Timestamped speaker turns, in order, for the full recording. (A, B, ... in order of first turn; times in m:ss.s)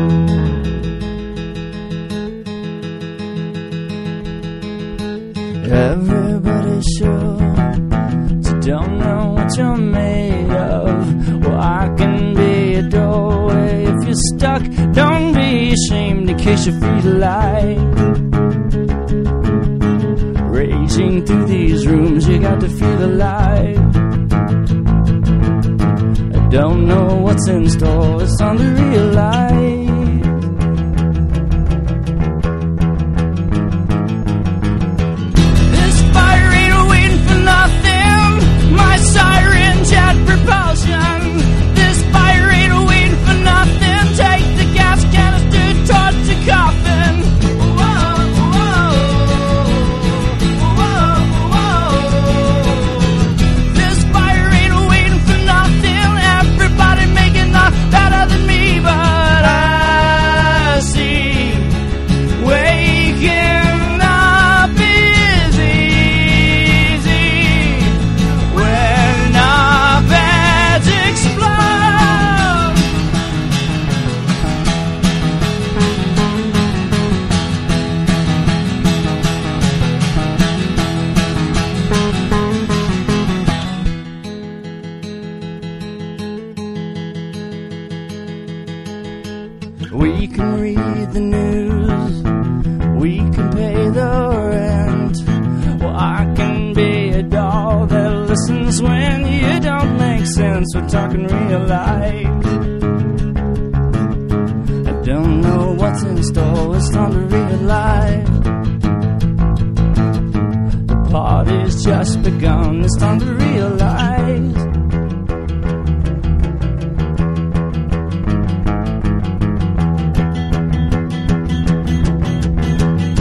0:05.6-0:07.9 A
0:08.4-0:18.1 A
0:20.4-0:24.0 A
0:26.3-0:30.4 A
0:35.7-1:12.8 A
1:29.9-1:32.3 A
1:32.9-1:42.6 A
1:44.8-1:48.4 A
1:50.8-1:54.7 A